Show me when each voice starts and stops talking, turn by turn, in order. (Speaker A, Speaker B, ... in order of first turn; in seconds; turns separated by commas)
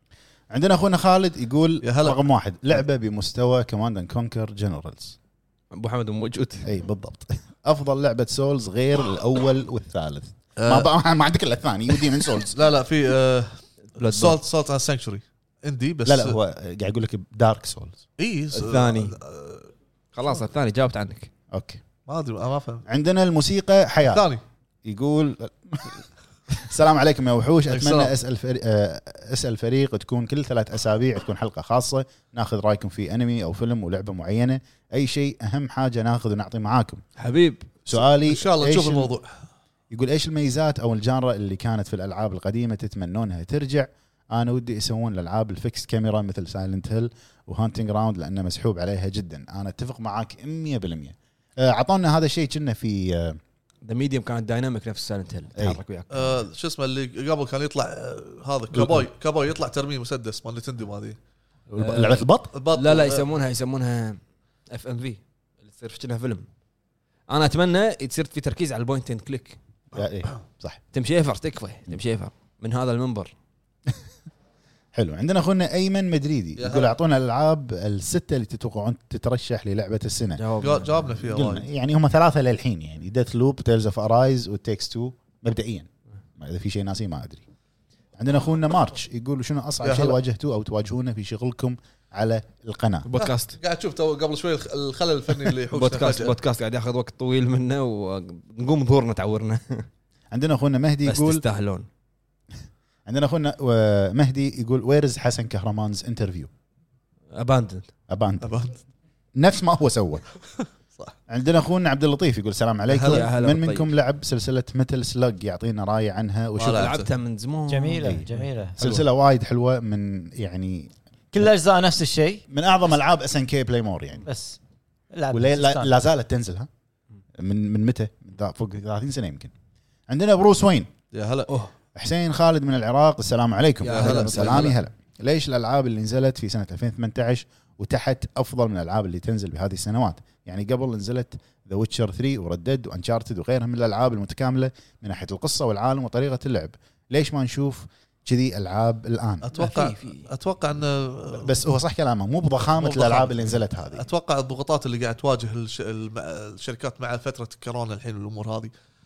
Speaker A: 0.5-5.2, Speaker B: 1.8-2.2, Speaker C: 5.7-6.7, Speaker A: 6.6-12.6, Speaker B: 10.6-10.9, Speaker B: 12.5-16.4, Speaker C: 14.0-14.4, Speaker A: 16.1-18.0, Speaker B: 18.2-19.7, Speaker C: 18.5-19.2, Speaker C: 20.1-21.3, Speaker A: 21.5-21.8, Speaker B: 22.1-22.9, Speaker A: 22.9-24.3, Speaker B: 24.1-24.4, Speaker A: 24.9-37.0, Speaker B: 27.7-28.1, Speaker C: 37.2-37.7, Speaker A: 37.9-39.1, Speaker B: 38.1-39.3, Speaker A: 39.9-53.4, Speaker C: 53.8-56.4, Speaker A: 55.6-55.8, Speaker B: 56.1-61.2, Speaker A: 58.7-59.1, Speaker A: 61.7-62.5, Speaker C: 61.8-64.2, Speaker B: 62.5-63.2, Speaker C: 64.7-66.5, Speaker C: 67.3-69.6, Speaker A: 69.9-70.8, Speaker C: 70.9-73.3, Speaker A: 74.9-80.4, Speaker B: 76.6-76.9, Speaker C: 80.4-81.1, Speaker B: 80.6-81.7, Speaker A: 81.3-85.9, Speaker A: 86.4-87.4, Speaker A: 88.2-93.1, Speaker B: 89.8-90.2, Speaker C: 93.0-93.6, Speaker B: 93.2-96.3, Speaker C: 95.7-99.9, Speaker A: 100.3-101.4, Speaker C: 101.1-101.9, Speaker A: 103.1-106.5, Speaker C: 107.3-107.9, Speaker A: 108.1-108.5, Speaker B: 108.4-108.8, Speaker A: 109.4-110.2, Speaker A: 111.3-117.0, Speaker B: 112.9-113.2, Speaker C: 113.0-113.9, Speaker B: 116.6-117.1, Speaker C: 116.7-119.0, Speaker D: 117.7-118.8, Speaker A: 118.0-120.9, Speaker D: 121.3-122.4, Speaker A: 122.5-124.2, Speaker D: 124.3-124.6, Speaker D: 125.1-126.0, Speaker A: 125.3-126.7, Speaker A: 127.4-129.5, Speaker A: 130.1-130.9, Speaker B: 131.1-131.5, Speaker A: 132.0-149.5, Speaker C: 133.8-134.8, Speaker B: 133.9-134.8, Speaker B: 149.4-151.5, Speaker C: 149.5-150.3, Speaker A: 151.4-154.1, Speaker B: 152.7-158.7